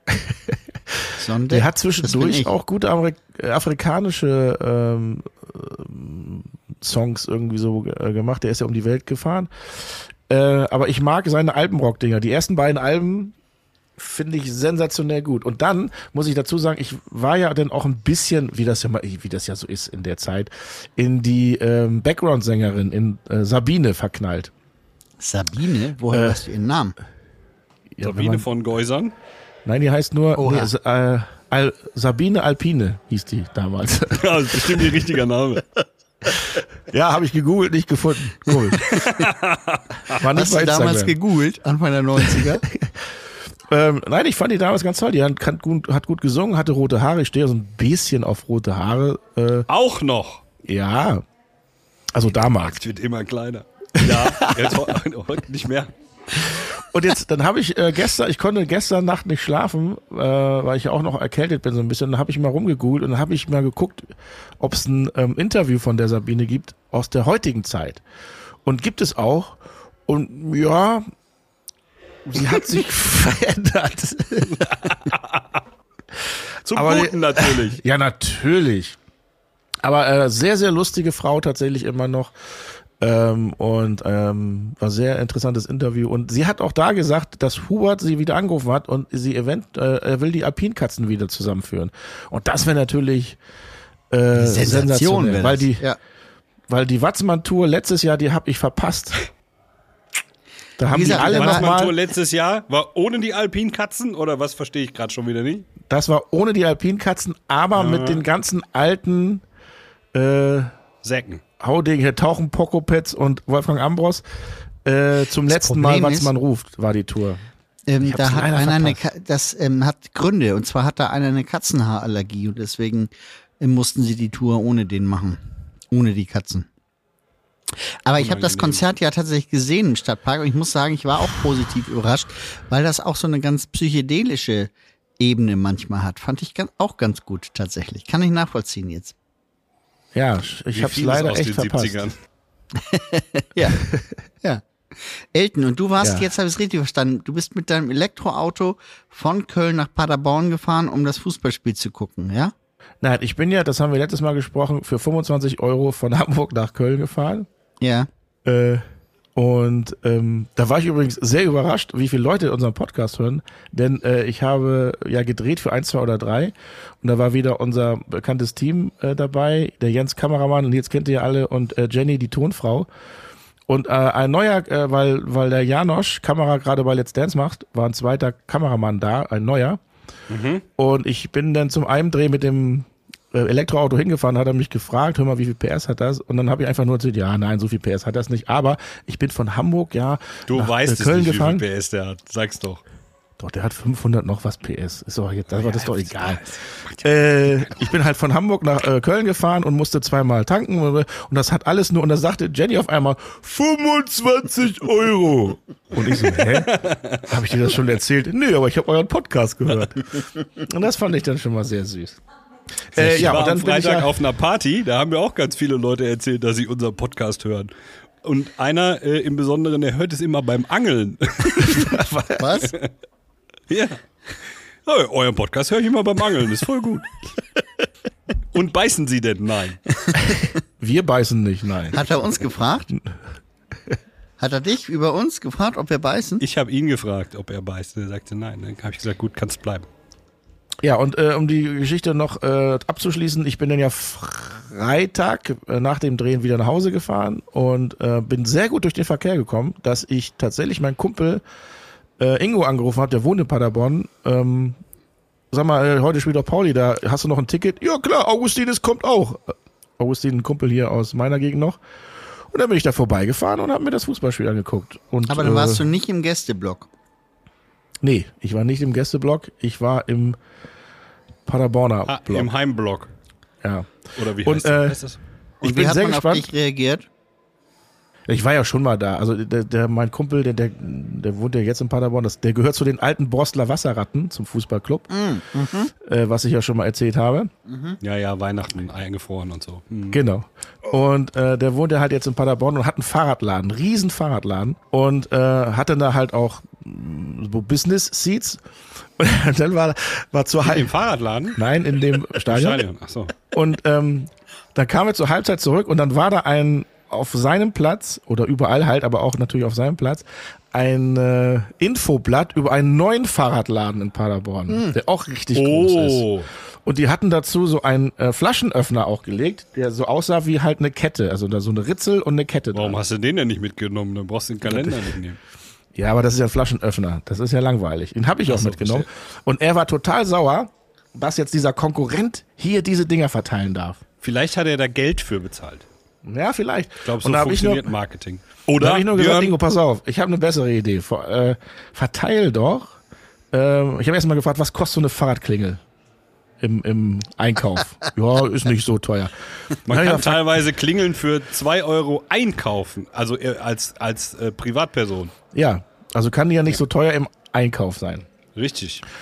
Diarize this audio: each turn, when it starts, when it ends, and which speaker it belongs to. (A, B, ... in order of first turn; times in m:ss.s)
0:00.2-0:13.3 A
0:01.2-0:02.5 B
0:14.0-0:24.5 A
0:25.2-0:27.0 B
0:26.1-0:26.4 A
0:27.9-0:28.4 A
0:28.0-0:29.1 C
0:29.6-0:35.0 A
0:30.4-0:30.7 B
0:34.1-0:35.6 C
0:36.9-0:38.9 A
0:38.8-0:40.2 C
0:40.1-0:41.2 A
0:40.3-0:42.6 B
0:42.4-0:43.2 A
0:43.7-0:49.7 A
0:49.7-0:50.4 C
0:50.6-0:51.2 A
0:52.1-0:52.8 A
0:52.6-0:55.9 C
0:54.0-0:54.9 A
0:56.4-1:08.0 A
1:08.6-1:11.1 A
1:12.2-1:14.7 A
1:14.6-1:15.6 C
1:16.6-1:17.8 C
1:16.7-1:19.0 A
1:19.8-1:33.4 A
1:34.1-1:35.8 A
1:34.4-1:36.0 B
1:36.7-1:39.2 A
1:40.8-1:41.9 A
1:40.9-1:41.7 B
1:41.0-1:45.7 C
1:45.8-1:49.4 A
1:47.7-1:48.2 C
1:50.1-1:50.7 A
1:51.0-1:51.4 C
1:51.6-1:54.2 A
1:54.8-1:57.4 A
1:55.5-1:56.3 B
1:57.9-2:05.4 B
1:58.0-1:59.0 A
2:05.9-2:06.7 B
2:07.8-2:19.1 B
2:08.2-2:08.8 C
2:20.1-2:22.0 A
2:20.7-2:22.1 C
2:22.7-2:23.8 B
2:24.4-2:32.5 B
2:26.0-2:26.3 A
2:33.0-2:37.5 A
2:37.8-2:38.1 B
2:38.4-2:38.8 A
2:39.4-2:52.9 A
2:53.7-2:59.8 A
3:00.3-3:00.6 C
3:00.8-3:11.6 A
3:10.5-3:12.8 C
3:13.4-3:16.4 A
3:15.5-3:17.9 C
3:17.0-3:32.2 A
3:26.3-3:27.3 C
3:32.9-3:34.1 A
3:32.9-3:37.7 C
3:38.2-3:42.0 C
3:41.6-3:42.5 A
3:42.4-3:42.7 B
3:43.7-3:44.0 C
3:44.8-3:47.2 C
3:48.5-3:49.8 C
3:50.8-3:52.0 A
3:51.9-3:52.9 B
3:54.4-3:56.4 B
3:56.4-3:59.9 C
4:00.8-4:11.4 A
4:12.2-4:14.8 A
4:15.5-4:21.8 A
4:22.3-4:25.9 A
4:25.3-4:26.9 B
4:28.0-4:30.4 A
4:31.4-4:32.5 A
4:32.1-4:33.1 C
4:33.6-4:35.0 A
4:34.2-4:35.2 C
4:35.6-4:36.5 A
4:35.6-4:37.1 B
4:38.3-4:45.1 A
4:45.1-4:45.9 B
4:46.0-4:47.5 A
4:47.6-4:48.0 B
4:48.0-4:50.2 C
4:50.1-4:58.6 A
4:59.2-5:00.9 A
5:00.6-5:01.6 C
5:01.6-5:02.8 A
5:02.3-5:03.4 C
5:03.5-5:16.3 A
5:14.7-5:15.0 B
5:15.5-5:16.5 C
5:16.8-5:23.0 A
5:22.7-5:25.4 C
5:24.6-5:25.2 A
5:25.9-5:34.0 A
5:28.4-5:29.1 C
5:34.2-5:35.8 C
5:36.2-5:37.9 A
5:37.0-5:39.6 C
5:38.8-5:43.0 A
5:43.5-5:45.8 A
5:46.6-5:50.6 A
5:49.9-5:55.3 C
5:55.5-5:58.2 A
5:58.6-5:59.0 C